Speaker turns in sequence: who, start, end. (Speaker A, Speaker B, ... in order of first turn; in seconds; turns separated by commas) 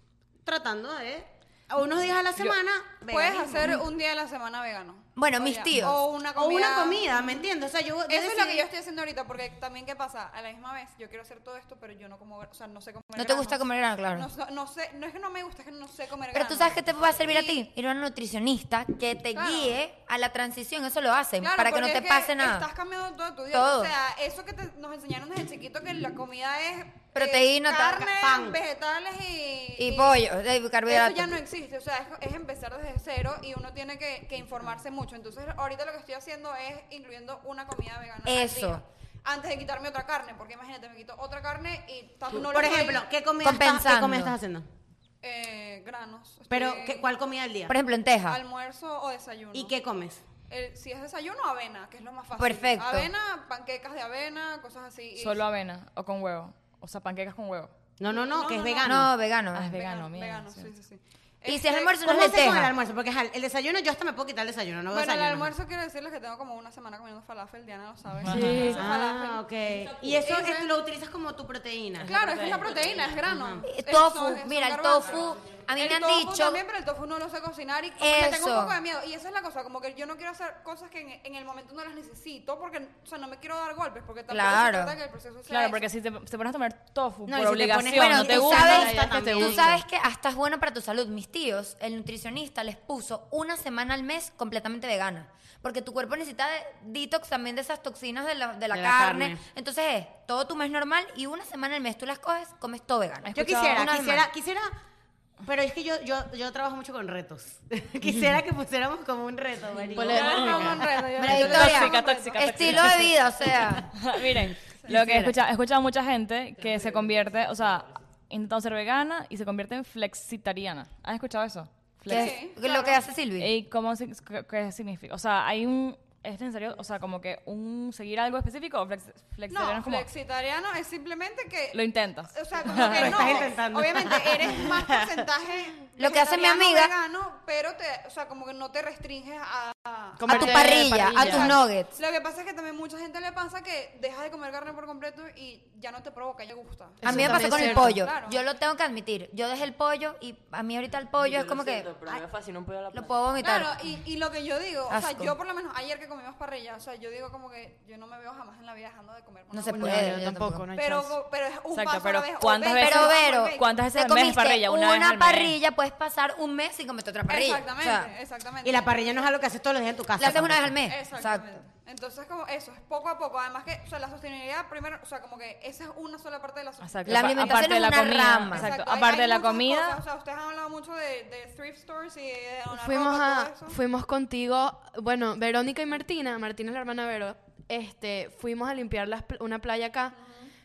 Speaker A: 0.4-3.8, Speaker B: 3.1-7.5, Speaker C: 5.2-6.0, Speaker A: 6.3-8.7, Speaker B: 8.1-17.6, Speaker C: 13.2-14.3, Speaker C: 16.3-22.7, Speaker B: 19.3-19.8, Speaker B: 21.4-30.2, Speaker C: 23.5-23.9, Speaker C: 27.1-28.1, Speaker A: 28.1-28.6, Speaker C: 29.8-31.4, Speaker B: 30.9-43.0, Speaker C: 38.2-38.8, Speaker A: 42.3-44.6, Speaker C: 43.4-44.4, Speaker B: 45.2-47.1, Speaker A: 46.5-47.8, Speaker C: 47.7-48.4, Speaker B: 48.3-49.7, Speaker A: 49.5-50.2, Speaker B: 50.5-55.4, Speaker C: 52.4-53.1, Speaker D: 55.2-57.7, Speaker A: 58.0-59.1, Speaker B: 58.1-59.1, Speaker C: 58.8-59.8, Speaker D: 59.5-60.7, Speaker B: 59.7-62.6, Speaker C: 61.5-62.7, Speaker A: 62.0-65.5, Speaker B: 64.9-69.4, Speaker D: 68.2-68.8, Speaker E: 68.3-69.2, Speaker A: 68.5-72.6, Speaker F: 69.8-70.2, Speaker B: 70.2-70.7, Speaker D: 72.0-72.7, Speaker B: 72.0-85.9, Speaker F: 72.8-73.0, Speaker C: 73.7-76.6, Speaker C: 78.0-78.8, Speaker C: 84.3-84.9, Speaker D: 85.5-89.0, Speaker A: 87.3-89.7, Speaker C: 87.9-104.3, Speaker E: 88.6-89.8, Speaker A: 98.7-99.4, Speaker D: 103.2-103.9, Speaker A: 103.3-104.7, Speaker A: 105.4-110.9, Speaker E: 109.9-111.0, Speaker B: 110.1-112.8, Speaker C: 111.2-113.9, Speaker D: 111.2-122.5, Speaker C: 114.9-115.3, Speaker F: 116.7-117.0, Speaker C: 122.0-123.5, Speaker B: 122.1-123.0, Speaker D: 123.4-130.1, Speaker B: 129.5-148.4, Speaker D: 131.7-133.4, Speaker A: 132.7-135.2, Speaker C: 136.0-136.9, Speaker E: 140.2-141.5, Speaker C: 140.3-141.9, Speaker D: 141.1-141.5, Speaker E: 147.0-148.1, Speaker C: 147.0-151.9, Speaker F: 151.2-153.1, Speaker C: 152.9-153.7, Speaker B: 153.4-160.2, Speaker C: 154.9-155.3, Speaker C: 159.5-160.7, Speaker E: 159.7-161.2, Speaker B: 160.7-163.6, Speaker D: 161.7-165.6, Speaker C: 162.8-168.1, Speaker B: 167.3-169.3, Speaker A: 168.6-170.7, Speaker C: 170.2-171.6, Speaker B: 170.8-183.8, Speaker D: 176.8-180.0, Speaker C: 177.1-178.7, Speaker E: 182.7-190.1, Speaker B: 190.1-190.5